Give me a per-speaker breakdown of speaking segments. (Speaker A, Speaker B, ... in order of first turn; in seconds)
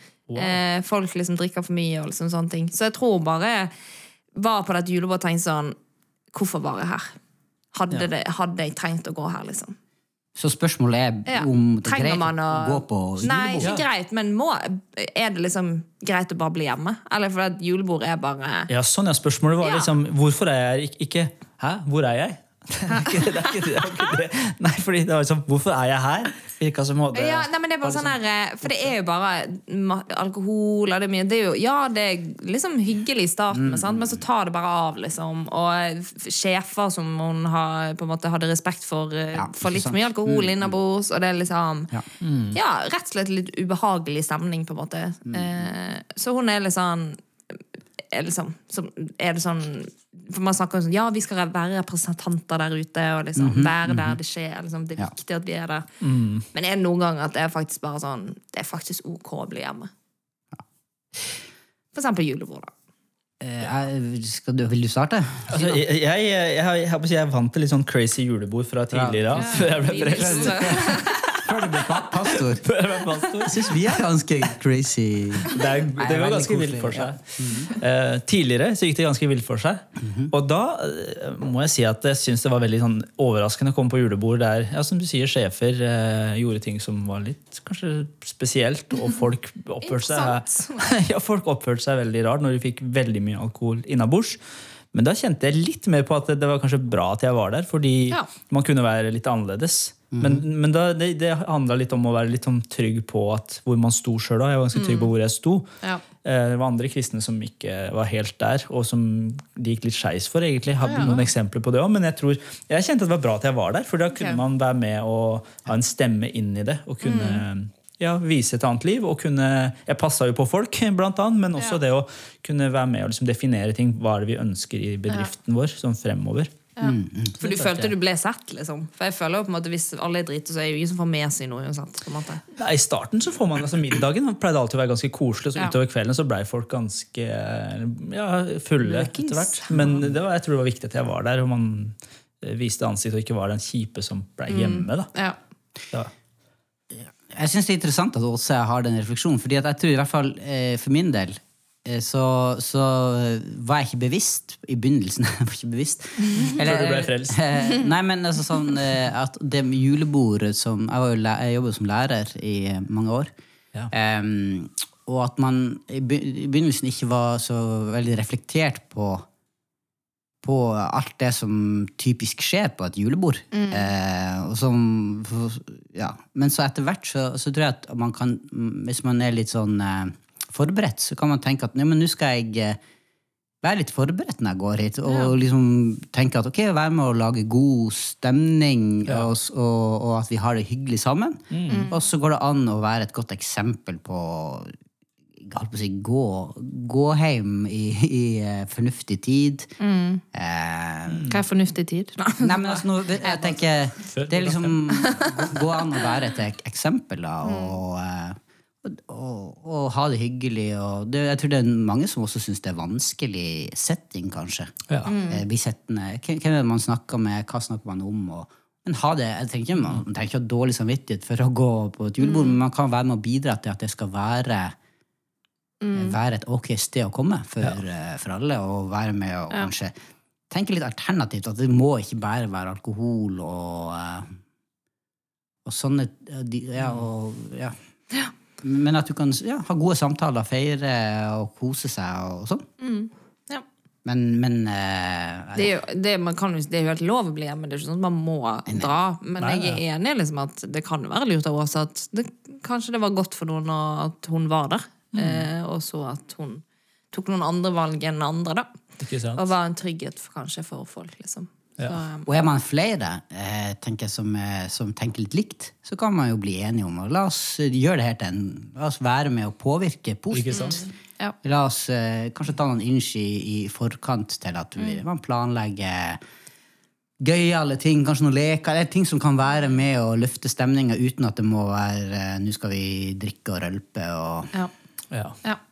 Speaker A: 0.3-0.6, 13.6-13.9, 18.7-28.9, 42.2-42.6, 56.0-56.5, 65.5-71.1, 72.2-73.9, 75.4-94.4, 94.9-105.7, 106.2-126.5, 127.4-127.9, 132.6-145.1, 156.4-157.4, 191.5-191.9, 201.1-201.5, 204.0-205.0, 214.9-215.2, 249.4-249.8, 255.1-255.5, 259.0-259.4, 270.3-270.8, 285.1-285.4
Speaker B: 0.3-3.7, 4.3-5.8, 6.3-7.1, 7.7-9.8, 11.3-18.7, 19.6-19.9, 22.9-23.5, 27.1-41.9, 42.5-47.2, 48.1-55.9, 56.5-59.9, 61.9-62.7, 69.3-71.4, 89.8-90.9, 104.7-105.1, 110.8-111.3, 114.1-114.4, 117.0-117.4, 126.8-132.4, 138.8-140.0, 144.5-145.4, 173.5-173.9, 185.1-185.3, 191.7-192.0, 199.8-200.2, 201.3-203.5, 205.0-205.5, 207.4-207.8, 215.1-215.4, 222.2-222.6, 225.8-226.2, 242.8-243.6, 245.5-258.7, 259.3-262.4, 270.5-271.4
Speaker C: 10.3-13.7, 33.5-34.2, 39.3-40.7, 45.3-45.7, 53.4-54.2, 63.4-65.8, 68.9-72.7, 73.4-77.7, 80.0-80.3, 100.1-100.4, 126.8-127.3, 146.9-163.3, 163.9-169.2, 170.4-182.8, 183.6-194.7, 195.4-199.7, 200.3-201.4, 202.3-224.8, 225.9-229.9, 230.5-234.3, 235.6-237.8, 238.6-242.7, 244.0-245.7, 262.2-270.9, 271.4-276.2, 277.2-284.5